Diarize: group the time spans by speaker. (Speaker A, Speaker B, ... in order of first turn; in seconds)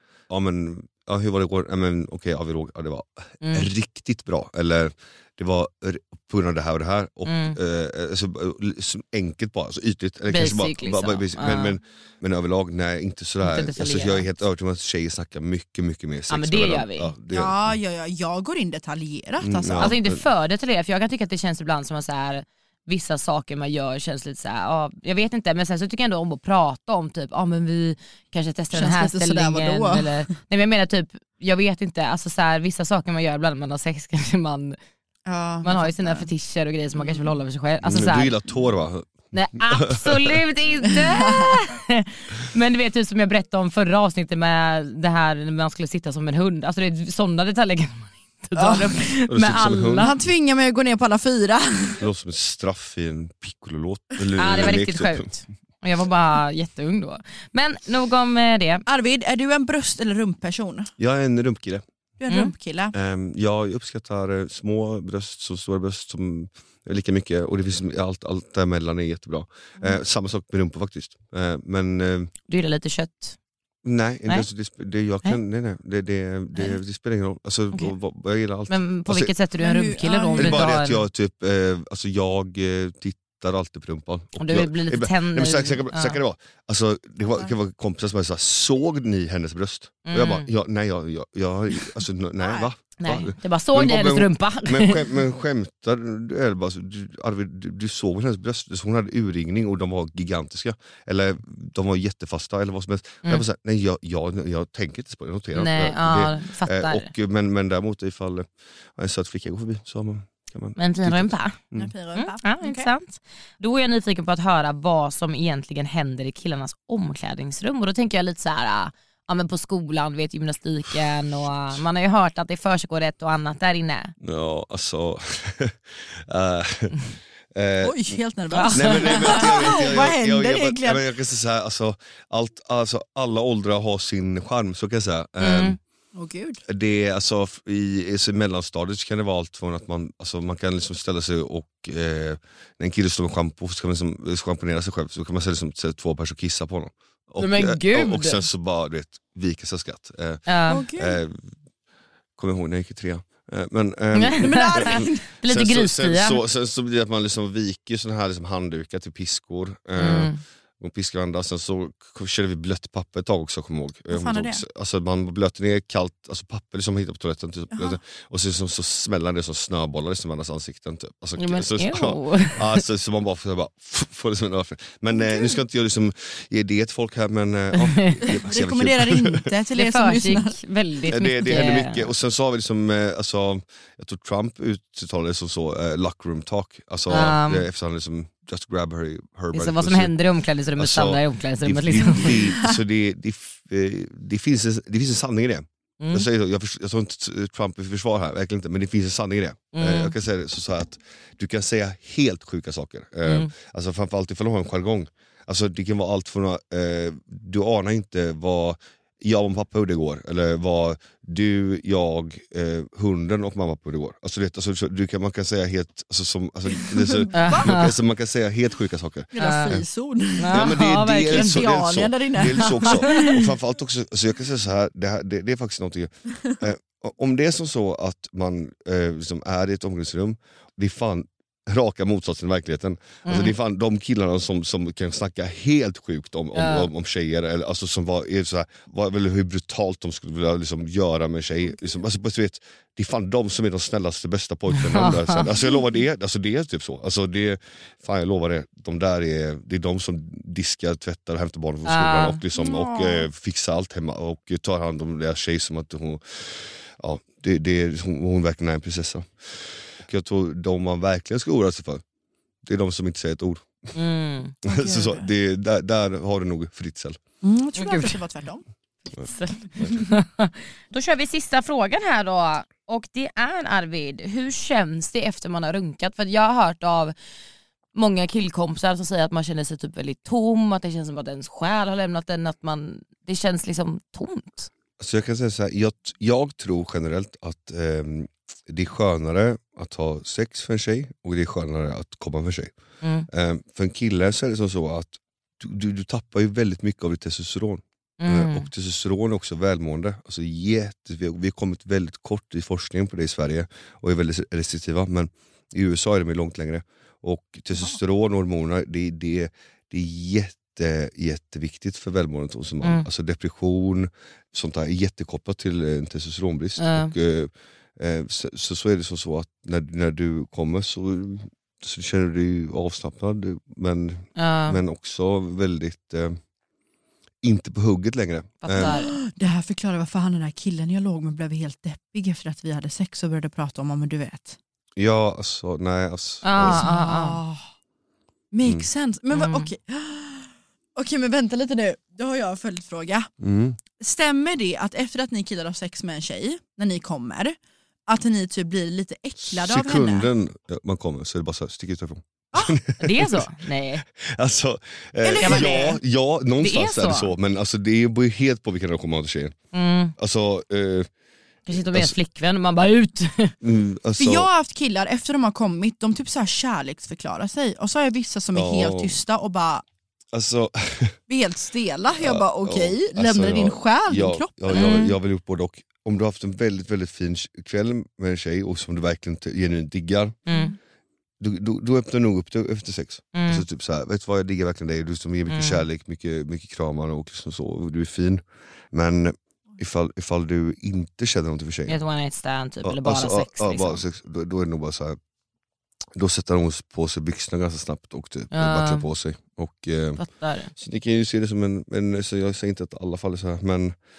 Speaker A: 0.3-17.7, 19.4-20.2, 37.8-40.4, 49.3-50.1, 52.0-55.3, 61.0-61.8, 62.9-72.3, 73.8-79.3, 80.4-111.9, 124.2-127.0, 127.5-128.1, 128.7-135.8, 136.7-151.4, 152.4-179.5, 181.1-190.1, 190.8-219.8, 220.5-262.0, 262.6-263.9, 264.6-267.2, 285.0-292.7, 293.3-326.4, 327.4-329.0, 335.0-336.8, 343.4-343.8, 349.4-353.4, 354.1-359.6, 360.2-361.1, 361.7-362.1, 363.6-364.5, 368.5-369.2, 370.3-371.2, 372.1-380.4, 381.4-392.0, 392.8-395.2, 396.1-400.2, 400.7-404.0
Speaker B: 3.4-3.7, 7.2-7.6, 10.3-11.8, 13.4-14.3, 16.3-17.1, 19.8-34.8, 35.6-38.3, 39.3-50.1, 54.4-58.8, 62.3-62.5, 72.5-73.4, 78.7-81.0, 84.4-86.2, 90.0-90.5, 93.0-95.1, 105.5-107.1, 110.8-111.6, 112.1-124.1, 128.5-129.7, 135.4-135.8, 147.4-148.4, 150.5-150.8, 154.1-156.4, 160.0-160.4, 171.4-172.8, 177.8-178.2, 179.7-182.1, 187.1-187.7, 189.5-192.4, 196.0-196.2, 199.7-200.1, 203.2-203.5, 217.3-217.9, 219.4-219.8, 220.4-221.6, 222.6-223.4, 233.2-233.5, 236.5-236.9, 244.8-245.5, 251.8-252.4, 263.9-264.5, 267.8-268.2, 269.1-277.1, 277.9-284.7, 293.0-293.3, 298.2-298.7, 316.8-317.1, 324.4-324.8, 328.6-329.1, 336.4-337.4, 339.3-339.7, 353.0-354.0, 355.4-356.0, 356.6-357.3, 359.7-360.1, 361.7-363.5, 374.7-375.1, 380.5-380.7, 383.3-383.6, 385.5-385.8, 391.9-394.0, 398.5-399.0, 400.2-400.7
Speaker C: 17.3-20.0, 28.7-30.3, 35.2-36.3, 37.0-37.2, 41.0-41.5, 48.5-49.1, 50.0-52.0, 58.9-60.9, 62.2-62.9, 79.6-80.7, 92.4-92.7, 111.7-112.9, 127.8-131.0, 136.1-136.6, 150.7-151.2, 154.4-155.3, 164.1-164.6, 167.7-168.0, 175.2-175.6, 178.2-180.6, 216.8-217.7, 219.3-223.4, 252.5-253.3, 264.6-265.3, 267.4-268.6, 328.8-334.6, 336.6-337.6, 338.5-343.3, 344.0-347.6, 348.1-350.3, 352.5-352.8, 355.2-356.0, 364.2-369.8, 371.3-375.0, 380.5-380.7